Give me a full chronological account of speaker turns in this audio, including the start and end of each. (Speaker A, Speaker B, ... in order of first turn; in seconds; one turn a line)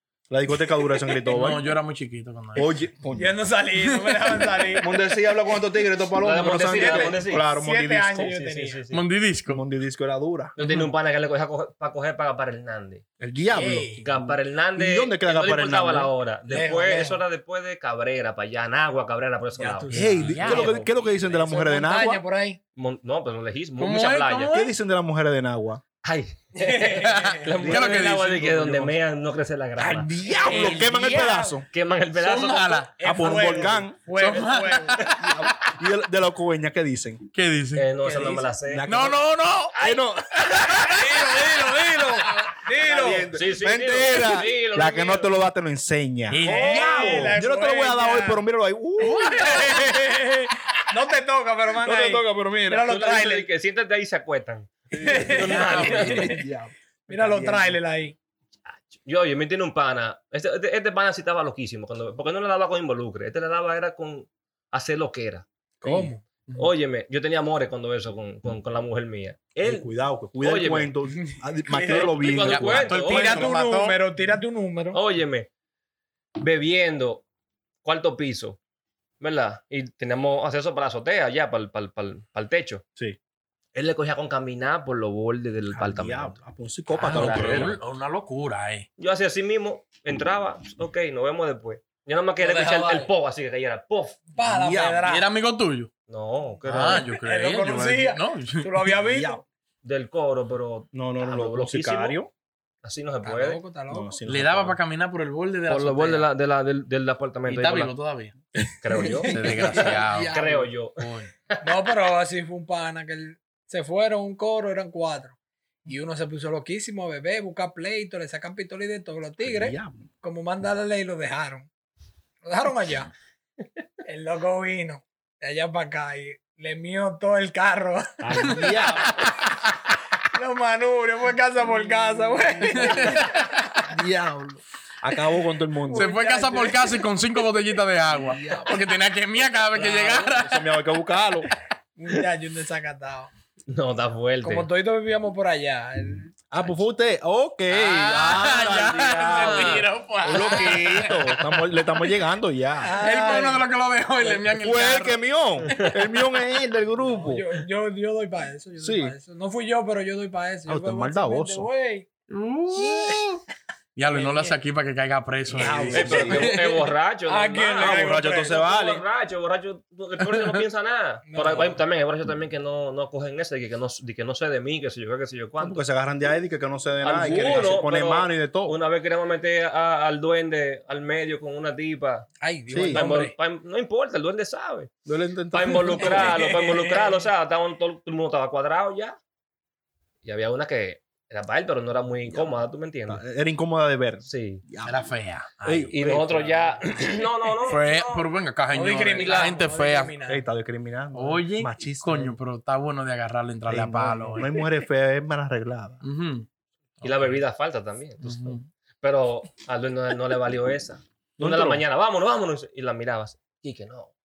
Speaker A: 0.3-1.7
Speaker B: 0.6-1.1
Speaker C: 1.2-2.7
Speaker A: 2.5-3.4
Speaker B: 3.1-5.0
Speaker C: 3.8-4.7
Speaker A: 4.7-8.3
Speaker D: 6.2-7.5
Speaker B: 6.7-8.8
Speaker D: 8.2-9.0
Speaker C: 8.9-9.6
Speaker A: 9.5-10.6
Speaker D: 10.6-13.0
Speaker A: 13.2-16.1
Speaker B: 13.5-14.0
Speaker D: 14.0-20.9
Speaker B: 16.5-17.2
Speaker B: 19.6-20.6
Speaker A: 19.9-22.2
Speaker C: 20.0-21.4
Speaker B: 21.4-22.6
Speaker D: 22.8-24.5
Speaker C: 23.8-24.7
Speaker A: 24.5-25.8
Speaker D: 26.0-30.1
Speaker B: 26.6-27.6
Speaker C: 27.0-28.8
Speaker A: 27.6-28.9
Speaker A: 29.8-31.7
Speaker B: 30.2-31.6
Speaker C: 30.5-30.9
Speaker D: 31.7-33.8
Speaker C: 32.2-32.9
Speaker B: 33.0-35.1
Speaker A: 33.0-34.1
Speaker C: 34.1-35.4
Speaker D: 34.4-35.1
Speaker A: 35.1-37.2
Speaker C: 37.3-37.9
Speaker D: 37.8-39.0
Speaker B: 38.0-38.5
Speaker A: 38.6-39.2
Speaker C: 38.9-39.8
Speaker D: 39.8-40.0
Speaker A: 39.8-41.1
Speaker C: 40.5-42.4
Speaker B: 40.8-43.3
Speaker A: 42.7-49.9
Speaker D: 43.3-45.4
Speaker C: 46.3-47.3
Speaker B: 46.4-48.5
Speaker B: 49.0-53.5
Speaker C: 49.0-50.0
Speaker A: 51.8-52.9
Speaker D: 52.9-56.4
Speaker A: 54.9-55.3
Speaker B: 55.0-56.4
Speaker C: 55.4-56.3
Speaker A: 56.2-57.8
Speaker B: 57.1-58.1
Speaker D: 58.7-69.9
Speaker B: 65.8-66.2
Speaker A: 69.6-72.8
Speaker D: 70.4-70.9
Speaker B: 71.1-72.2
Speaker D: 71.8-73.5
Speaker C: 72.3-74.0
Speaker B: 73.0-75.0
Speaker D: 74.9-75.5
Speaker D: 76.4-77.2
Speaker D: 77.8-78.6
Speaker D: 79.2-82.8
Speaker D: 83.8-86.4
Speaker A: 85.7-87.5
Speaker C: 87.0-88.9
Speaker D: 87.1-87.8
Speaker D: 89.0-94.2
Speaker B: 92.4-93.1
Speaker B: 94.3-95.3
Speaker A: 94.4-95.0
Speaker C: 95.0-95.9
Speaker D: 96.1-97.1
Speaker C: 96.7-99.0
Speaker B: 96.7-99.3
Speaker A: 99.0-99.4
Speaker D: 99.8-102.2
Speaker A: 100.9-102.3
Speaker D: 102.8-103.6
Speaker B: 103.2-104.2
Speaker A: 103.9-104.8
Speaker C: 104.3-106.3
Speaker D: 105.7-107.9
Speaker C: 107.5-110.4
Speaker D: 108.8-111.0
Speaker B: 108.9-110.7
Speaker C: 111.0-111.3
Speaker B: 111.6-121.7
Speaker A: 119.4-120.1
Speaker B: 122.4-123.1
Speaker B: 124.0-129.1
Speaker A: 128.2-129.2
Speaker C: 128.4-128.7
Speaker B: 130.3-133.9
Speaker A: 131.9-132.9
Speaker C: 132.7-133.4
Speaker A: 133.8-136.1
Speaker B: 135.8-137.1
Speaker C: 135.9-140.7
Speaker A: 138.1-138.8
Speaker D: 139.7-140.3
Speaker A: 140.3-141.5
Speaker B: 142.0-143.3
Speaker D: 143.7-144.7
Speaker B: 144.4-146.3
Speaker A: 146.5-153.0
Speaker C: 147.7-151.7
Speaker D: 149.2-149.9
Speaker B: 152.8-154.5
Speaker C: 153.0-155.2
Speaker A: 154.5-157.4
Speaker D: 155.7-156.0
Speaker B: 157.0-162.1
Speaker A: 158.8-159.1
Speaker A: 160.7-161.7
Speaker C: 162.3-163.4
Speaker A: 162.8-163.3
Speaker C: 164.0-166.9
Speaker B: 164.1-164.6
Speaker A: 165.5-166.6
Speaker B: 165.6-166.5
Speaker D: 165.9-175.8
Speaker B: 167.3-168.7
Speaker A: 167.8-169.0
Speaker C: 170.2-170.6
Speaker B: 171.2-171.8
Speaker A: 175.6-178.8
Speaker D: 177.0-182.3
Speaker C: 177.2-177.7
Speaker B: 182.4-183.3
Speaker A: 182.7-183.1
Speaker D: 182.9-184.9
Speaker A: 185.1-186.2
Speaker D: 185.5-189.2
Speaker B: 185.8-187.3
Speaker D: 190.2-193.2
Speaker A: 192.3-195.0
Speaker D: 194.2-194.7
Speaker C: 194.8-196.2
Speaker A: 195.6-196.8
Speaker D: 195.9-198.3
Speaker C: 197.7-200.1
Speaker B: 198.7-200.4
Speaker A: 200.3-202.4
Speaker C: 201.1-204.5
Speaker A: 203.7-206.0
Speaker C: 206.0-206.5
Speaker C: 207.0-207.4
Speaker D: 207.0-214.1
Speaker C: 208.2-208.7
Speaker A: 211.4-211.8